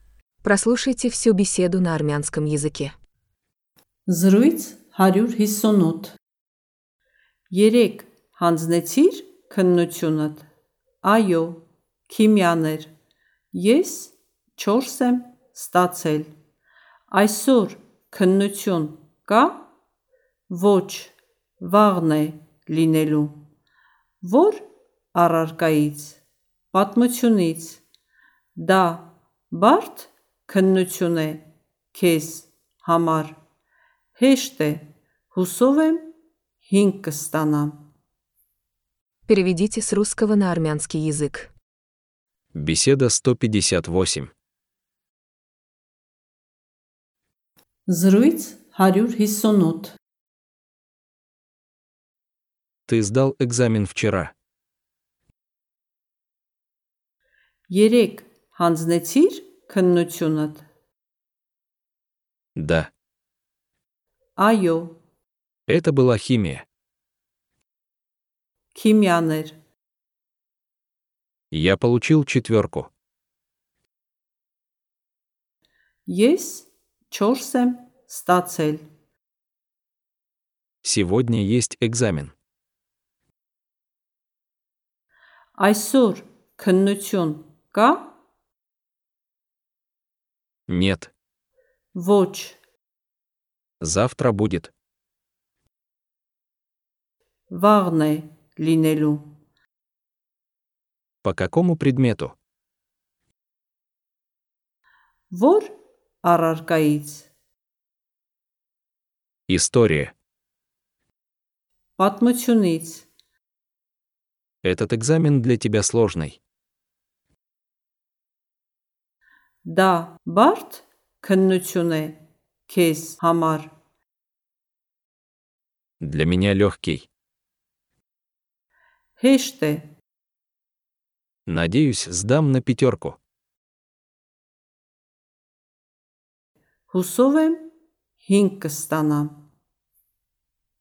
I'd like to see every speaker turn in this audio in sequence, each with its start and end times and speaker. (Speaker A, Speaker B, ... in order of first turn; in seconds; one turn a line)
Speaker A: 0.4-2.9
Speaker B: 4.1-6.2
Speaker B: 7.5-10.4
Speaker B: 11.0-12.9
Speaker B: 13.5-16.3
Speaker B: 17.1-19.6
Speaker B: 20.5-23.4
Speaker B: 24.2-26.2
Speaker B: 26.7-27.8
Speaker B: 28.6-33.4
Speaker B: 34.1-36.1
Speaker B: 36.6-37.9
Speaker A: 39.3-41.5
Speaker C: 42.5-44.3
Speaker B: 47.9-50.0
Speaker C: 52.9-54.3
Speaker B: 57.7-60.6
Speaker C: 62.5-62.9
Speaker B: 64.4-65.0
Speaker C: 65.7-66.6
Speaker B: 68.7-69.6
Speaker C: 71.5-72.9
Speaker B: 76.1-78.8
Speaker C: 80.8-82.3
Speaker B: 85.6-88.1
Speaker C: 90.7-91.1
Speaker B: 91.9-92.6
Speaker C: 93.8-94.7
Speaker B: 97.5-99.3
Speaker C: 101.2-102.3
Speaker B: 105.3-107.3
Speaker C: 109.5-110.1
Speaker B: 112.0-113.1
Speaker C: 114.6-116.4
Speaker B: 119.6-123.7
Speaker C: 126.0-127.1
Speaker B: 129.2-129.9
Speaker C: 131.5-133.2
Speaker B: 136.9-137.7
Speaker B: 138.2-139.4